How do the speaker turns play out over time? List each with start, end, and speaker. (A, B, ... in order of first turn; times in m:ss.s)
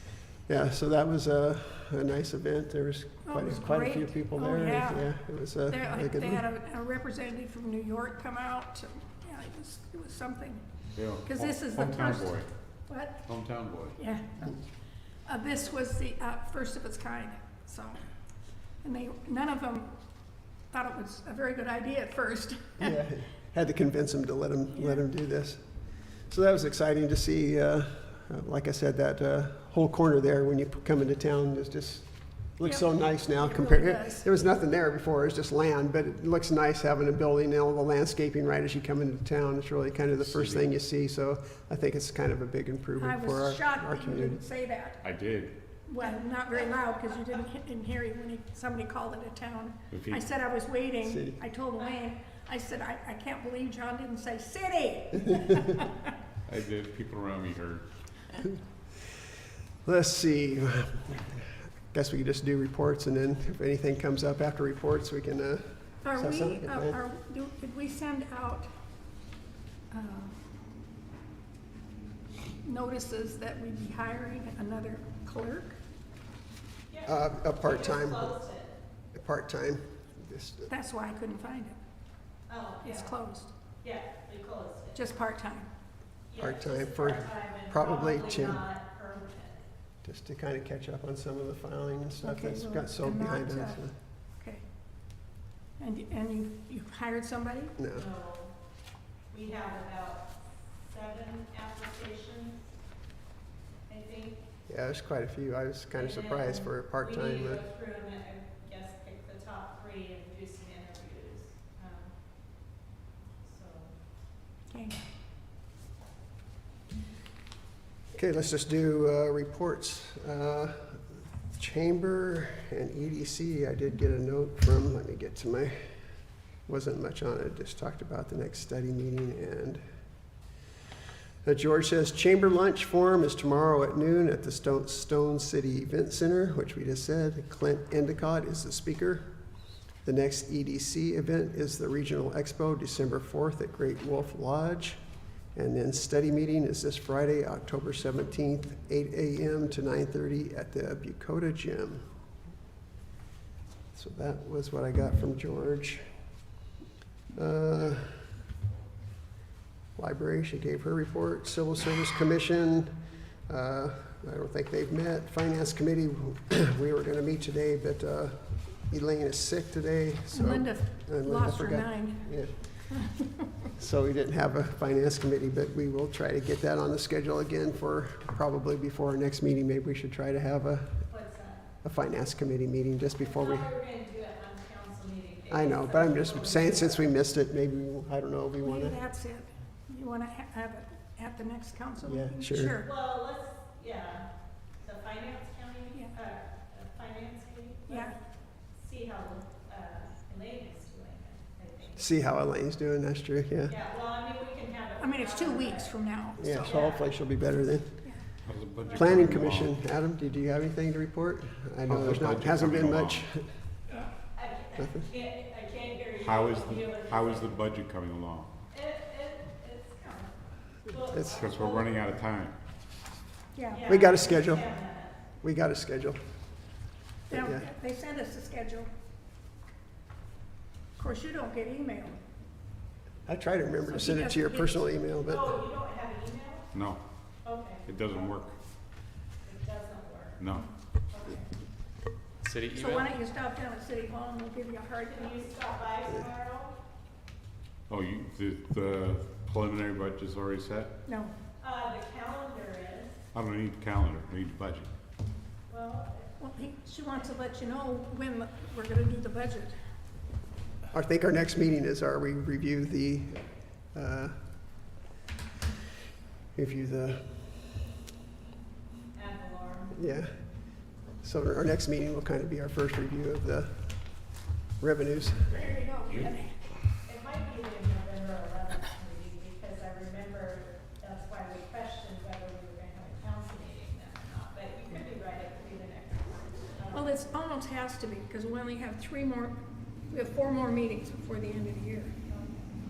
0:00.5-0:06.4 A
0:03.2-0:05.1 B
0:05.7-0:10.6 B
0:11.0-0:12.5 C
0:11.2-0:13.2 B
0:13.3-0:14.0 C
0:14.0-0:14.6 B
0:15.2-0:18.0 B
0:18.8-0:19.9 B
0:20.7-0:23.0 B
0:22.8-0:44.4 A
0:24.7-0:25.0 B
0:32.6-0:34.3 B
0:40.2-0:40.7 C
0:43.0-0:45.0 B
0:45.0-0:45.5 C
0:45.9-0:56.1 B
0:46.0-0:47.4 D
0:49.9-0:50.2 C
0:51.0-0:51.4 A
0:51.8-0:52.0 D
0:56.4-0:57.9 C
0:59.8-1:07.0 A
1:06.0-1:08.7 B
1:09.9-1:10.4 B
1:12.6-1:15.8 B
1:16.9-1:18.8 D
1:17.0-1:18.4 A
1:19.1-1:20.7 A
1:20.7-1:21.8 B
1:22.5-1:23.1 D
1:22.8-1:23.5 B
1:23.8-1:25.1 D
1:24.9-1:25.7 B
1:26.3-1:29.6 D
1:26.4-1:28.6 A
1:30.0-1:33.9 A
1:32.2-1:33.8 B
1:35.8-1:37.7 B
1:37.8-1:38.1 A
1:37.9-1:38.5 D
1:39.3-1:42.7 D
1:43.9-1:44.4 D
1:44.7-1:47.6 A
1:45.9-1:52.1 D
1:53.4-1:53.9 D
1:54.7-1:55.0 B
1:58.1-2:05.8 A
2:06.6-2:09.8 A
2:11.4-2:19.3 A
2:20.0-2:25.0 A
2:25.5-2:32.1 A
2:33.9-2:36.0 A
2:37.3-2:38.3 A
2:40.0-2:42.9 A
2:43.5-2:52.8 A
2:50.3-2:53.3 B
2:53.7-3:01.1 A
3:01.1-3:01.6 D
3:01.8-3:03.7 A
3:03.2-3:07.1 D
3:05.5-3:09.0 A
3:08.6-3:12.9 B
3:12.0-3:12.8 A
3:12.8-3:14.3 D
3:14.8-3:18.2 D
3:17.9-3:18.2 B
3:18.8-3:22.0 D
3:22.0-3:23.7 A
3:23.7-3:25.9 D
3:25.0-3:26.8 B
3:26.4-3:28.1 A
3:26.6-3:27.1 D
3:28.5-3:29.8 C
3:28.8-3:29.2 D
3:28.9-3:33.5 A
3:31.9-3:33.2 C
3:34.3-3:37.6 D
3:34.8-3:35.1 A
3:36.2-3:38.5 C
3:38.7-3:40.3 D
3:40.8-3:42.1 D
3:41.0-3:41.4 A
3:41.4-3:42.5 C
3:43.6-3:43.8 B
3:43.7-3:45.2 D
3:43.8-3:44.7 A
3:45.4-3:46.2 A
3:47.3-3:47.7 A
3:47.3-3:48.9 B
3:51.0-3:52.2 B
3:53.3-3:55.6 A
3:53.9-3:54.8 B
3:55.2-3:56.7 D
3:56.7-3:57.0 C
3:57.4-3:58.3 D
3:57.8-3:58.5 C
3:59.4-4:00.5 D
4:00.4-4:00.6 C
4:01.1-4:01.5 D
4:02.4-4:03.1 C
4:02.7-4:05.4 B
4:05.1-4:06.7 D
4:07.9-4:10.9 C
4:11.1-4:11.3 B
4:11.6-4:13.2 D
4:13.3-4:14.9 C
4:15.7-4:16.4 D
4:16.4-4:19.7 B
4:20.9-4:24.4 A
4:26.5-4:27.4 A
4:29.1-4:29.9 D
4:29.9-4:35.8 A
4:35.6-4:36.6 B
4:37.0-4:47.3 D
4:46.9-4:49.6 B
4:50.1-4:52.1 B
4:52.3-4:52.6 D